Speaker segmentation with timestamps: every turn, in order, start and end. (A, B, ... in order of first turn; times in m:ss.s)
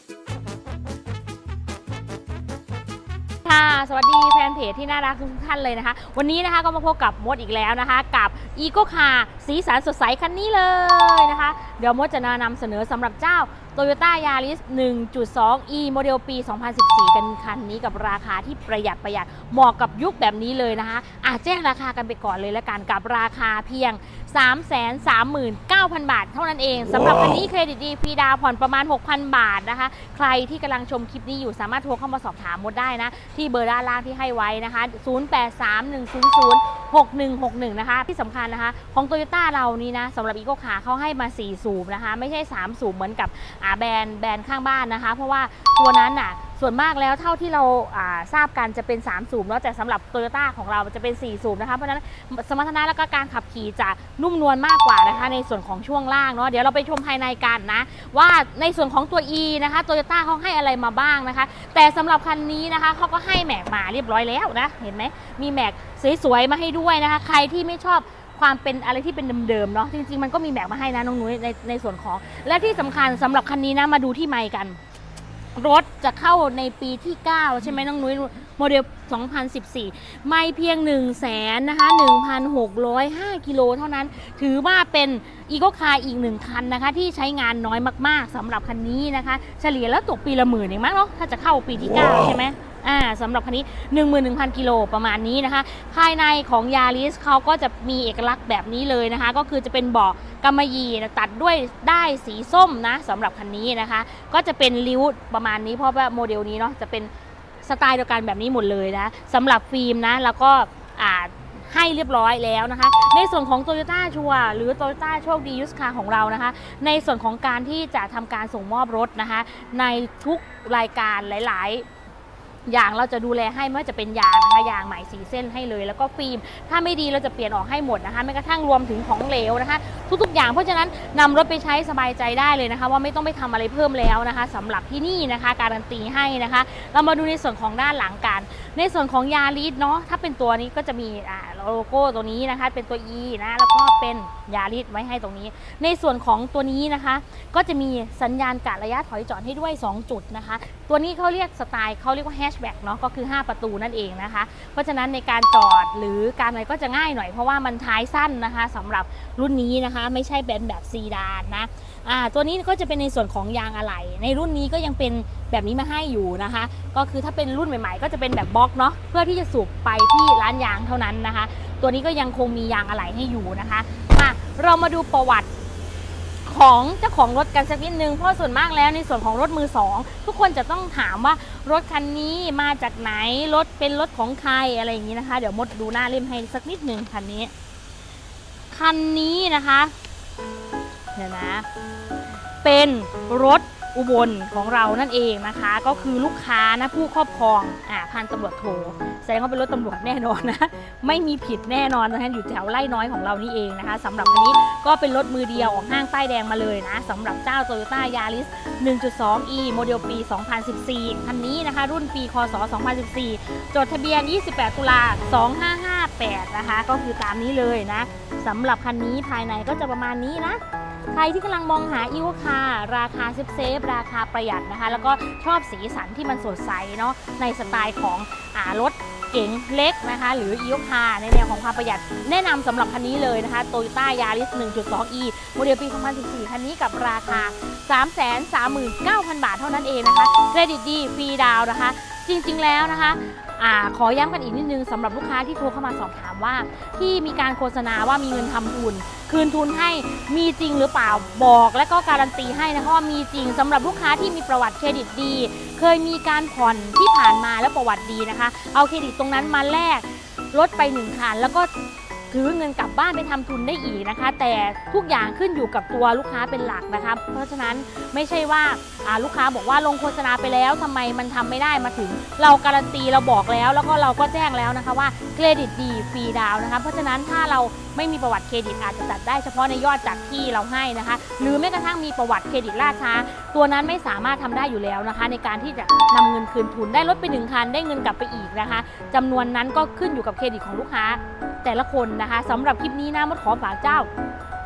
0:03.4-1:14.8 A
1:15.5-1:47.1 A
1:47.6-2:01.9 A
2:02.7-2:55.5 A
2:56.4-3:07.5 A
3:08.7-3:09.9 A
3:11.1-3:11.6 A
3:12.6-4:21.7 A
4:22.3-4:54.1 A